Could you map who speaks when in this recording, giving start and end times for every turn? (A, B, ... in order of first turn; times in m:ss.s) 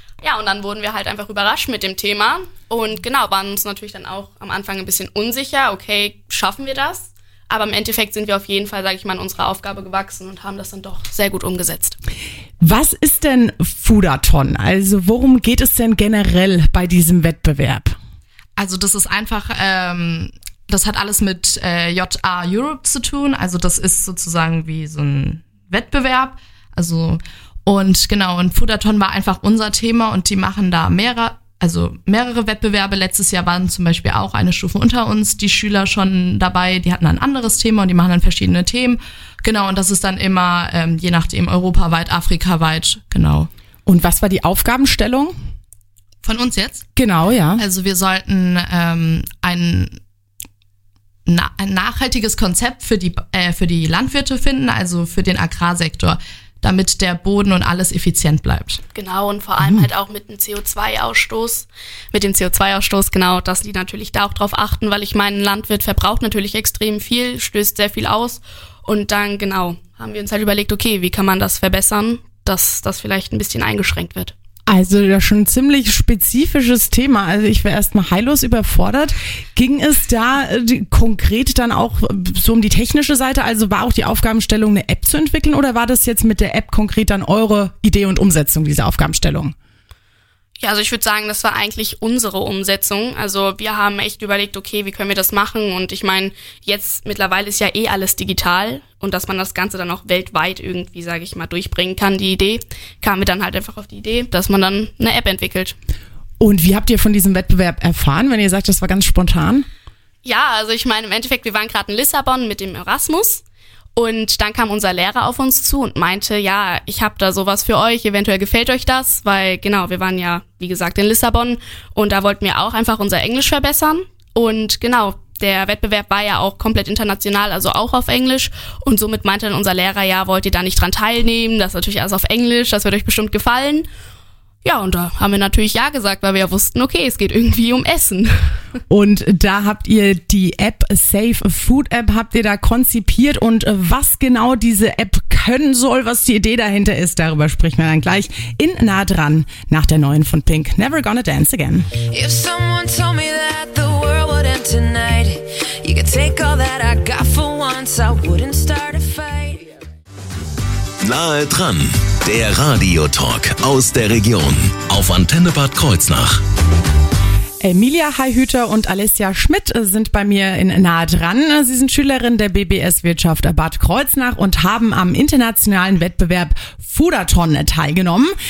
0:00.2-0:12.0 A
0:12.6-0:17.9 B
0:18.6-0:43.5 C
0:43.8-0:45.3 B
0:46.2-0:46.8 C
0:47.0-0:47.6 B
0:47.6-0:50.0 C
0:51.3-0:58.8 C
0:58.9-1:14.3 A
1:14.7-1:29.5 B
1:30.6-1:45.8 A
1:46.4-1:49.6 B
1:50.2-1:53.4 A
1:54.0-2:13.9 A
2:14.6-2:18.6 A
2:18.9-2:32.0 B
2:32.0-2:39.7 D
2:41.0-2:46.4 E
2:47.6-2:58.3 B